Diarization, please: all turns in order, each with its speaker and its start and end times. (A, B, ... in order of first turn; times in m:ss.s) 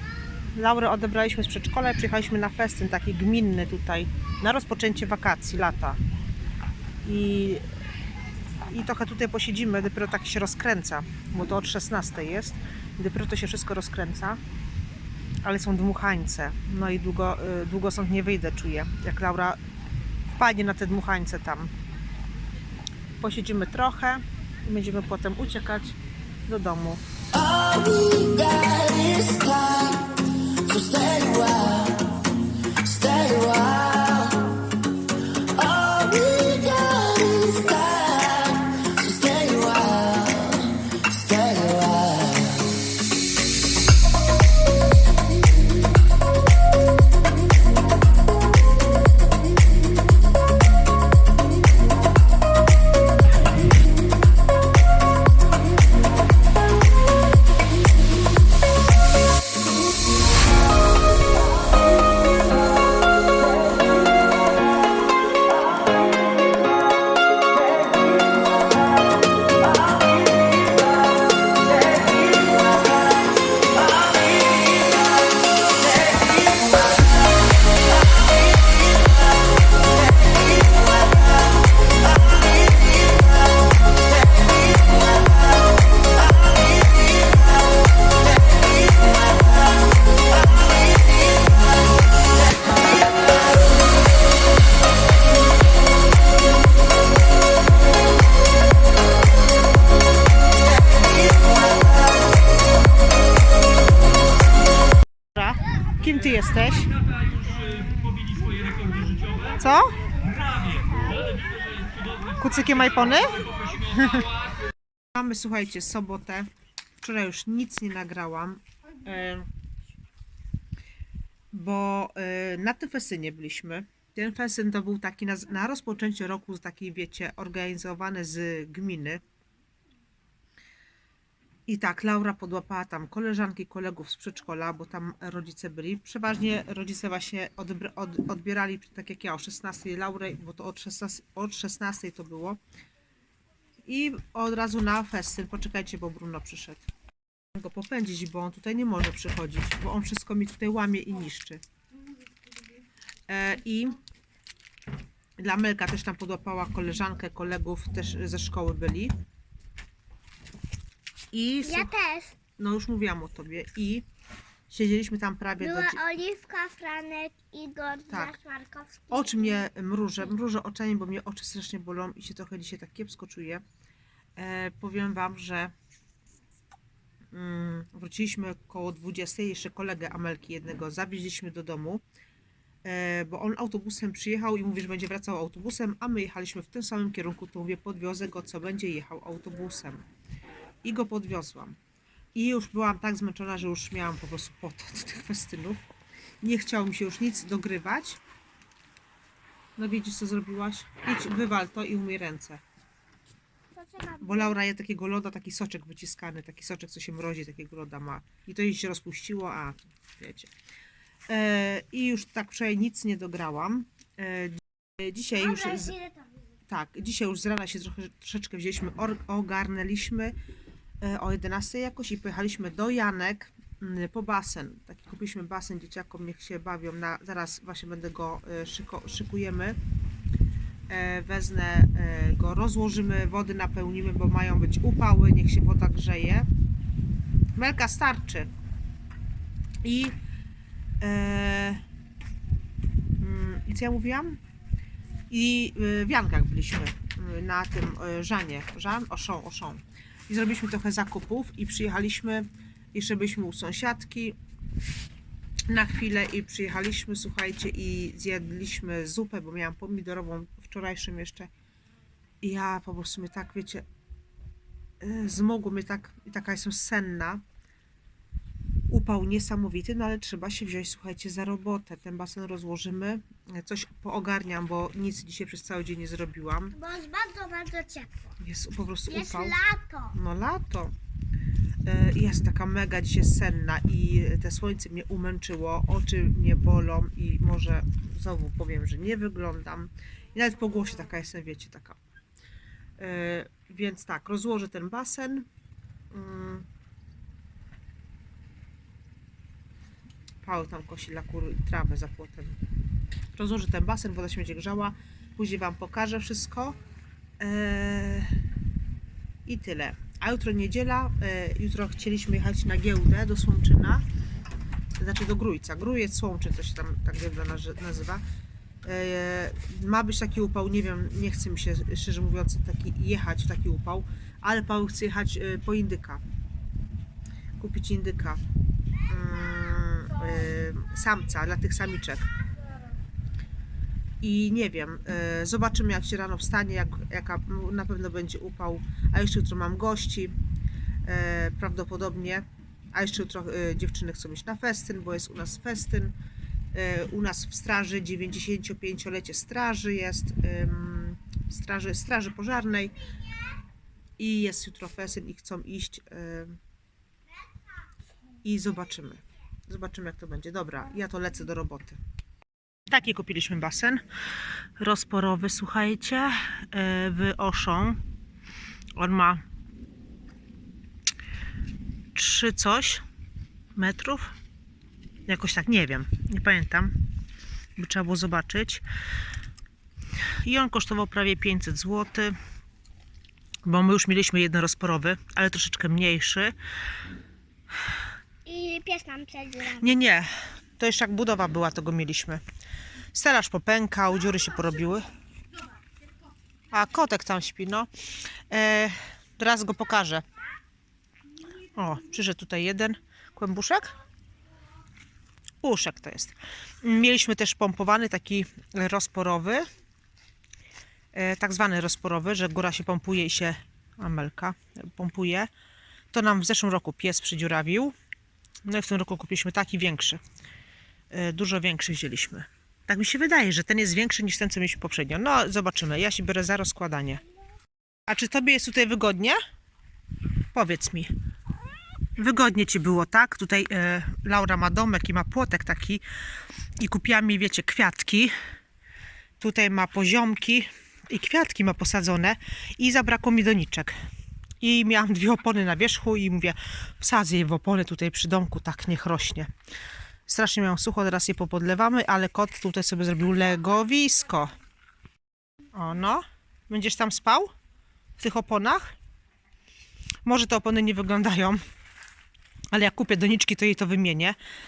0:00.5-0:06.0 A
0:07.0-0:07.7 A
0:08.7-0:14.4 A
0:15.4-0:19.6 A
0:20.4-0:21.7 A
0:23.2-0:26.0 A
0:26.5-0:27.0 A
0:27.4-0:32.2 B
0:32.8-0:34.6 B
0:35.5-0:42.7 B
1:45.4-1:46.9 A
1:49.6-1:50.0 A
1:52.4-1:54.3 A
1:55.1-1:56.5 A
1:57.0-1:59.5 A
2:01.5-2:09.2 A
2:11.7-2:22.6 A
2:23.9-2:26.9 A
2:27.5-2:31.6 A
2:33.3-2:34.0 A
2:35.4-2:39.2 A
2:41.3-2:41.9 A
2:41.6-2:42.4 C
2:42.6-2:44.1 A
2:44.7-2:46.0 A
2:45.6-2:49.6 C
2:48.1-2:48.4 A
2:49.1-2:53.6 A
2:54.4-2:55.7 A
2:57.3-3:02.0 A
3:02.8-3:10.0 A
3:10.8-3:11.8 A
3:12.4-3:15.8 A
3:16.4-3:18.2 A
3:19.8-3:22.6 A
3:23.8-3:24.4 C
3:24.2-3:30.5 A
3:31.3-3:36.0 A
3:35.4-3:36.4 C
3:36.7-3:40.4 A
3:41.0-3:49.8 A
3:50.9-3:56.5 A
3:57.6-3:58.5 A
3:59.8-4:00.2 A
4:01.0-4:01.8 A
4:03.2-4:04.4 A
4:05.3-4:14.4 A
4:15.7-4:21.5 A
4:22.4-4:23.8 A
4:25.0-4:27.4 A
4:28.9-4:36.8 A
4:36.8-4:38.3 C
4:38.4-4:39.6 A
4:39.1-4:40.2 C
4:40.1-4:40.9 A
4:41.8-4:52.0 A
4:53.0-4:55.5 A
4:56.1-4:56.7 A
5:00.4-5:02.6 A
5:03.4-5:06.8 A
5:07.4-5:08.4 A
5:09.5-5:14.0 A
5:15.0-5:18.2 A
5:18.8-5:26.2 A
5:27.6-5:28.4 A
5:29.1-5:32.3 A
5:34.2-5:40.4 A
5:41.0-5:46.2 A
5:46.7-5:52.9 A
5:54.2-5:56.6 A
5:58.4-6:02.0 A
6:02.9-6:04.0 A
6:04.8-6:08.0 A
6:09.0-6:09.4 A
6:12.2-6:13.0 A
6:13.8-6:14.3 A
6:15.3-6:17.0 A
6:17.8-6:18.8 A
6:20.4-6:22.4 A
6:23.6-6:26.6 A
6:28.5-6:29.8 C
6:29.8-6:32.4 A
6:33.1-6:35.1 A
6:36.7-6:37.9 A
6:38.5-6:40.3 A
6:41.8-6:43.9 A
6:45.6-6:49.6 A
6:51.1-6:55.5 A
6:56.1-6:58.0 A
6:58.6-7:00.2 A
7:01.1-7:07.2 A
7:08.1-7:09.4 A
7:10.5-7:11.1 A
7:12.2-7:16.0 A
7:16.8-7:18.3 A
7:19.4-7:24.0 A
7:24.6-7:29.5 A
7:30.3-7:34.5 A
7:35.7-7:37.5 A
7:38.2-7:39.0 A
7:40.2-7:41.6 A
7:42.7-7:44.4 A